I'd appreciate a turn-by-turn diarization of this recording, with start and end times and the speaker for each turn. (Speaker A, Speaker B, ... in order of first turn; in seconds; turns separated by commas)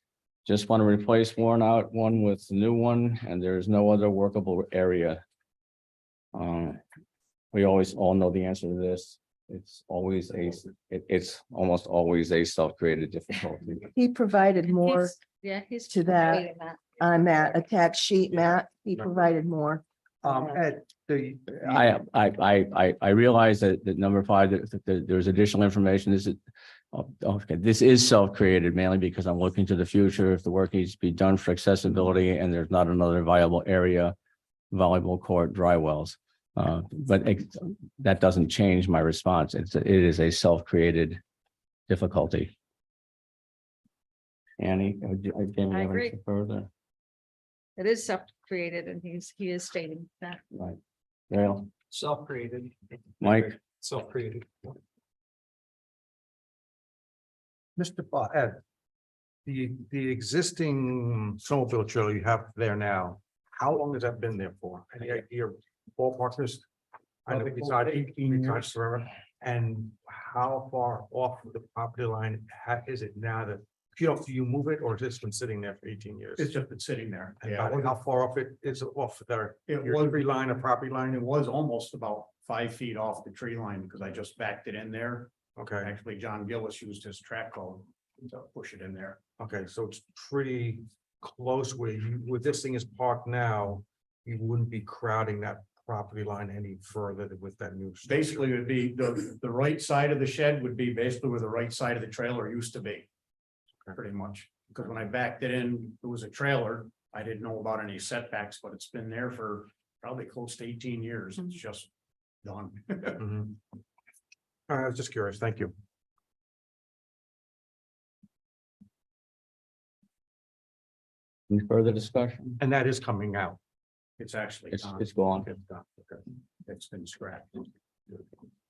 Speaker A: 0.4-5.2, Speaker A: 6.3-6.8, Speaker A: 7.5-13.9, Speaker B: 13.9-15.1, Speaker C: 14.7-16.9, Speaker B: 15.9-16.4, Speaker B: 17.0-20.6, Speaker D: 20.2-21.9, Speaker A: 21.7-26.4, Speaker A: 26.9-34.1, Speaker A: 34.7-41.2, Speaker A: 41.9-42.5, Speaker A: 44.6-46.7, Speaker C: 45.7-46.1, Speaker C: 47.8-50.4, Speaker A: 50.5-50.8, Speaker A: 51.3-51.7, Speaker E: 51.9-54.8, Speaker A: 53.2-53.5, Speaker D: 57.8-58.6, Speaker D: 59.5-66.7, Speaker D: 67.2-76.5, Speaker F: 67.3-68.8, Speaker F: 76.4-77.9, Speaker D: 77.4-80.9, Speaker F: 79.7-89.2, Speaker D: 85.5-85.9, Speaker D: 89.4-98.4, Speaker F: 98.0-103.1, Speaker F: 103.9-111.9, Speaker F: 112.4-113.2, Speaker D: 113.2-113.6, Speaker D: 114.7-115.7, Speaker A: 121.5-122.6, Speaker D: 122.6-123.6, Speaker F: 124.2-128.3, Speaker A: 124.7-125.5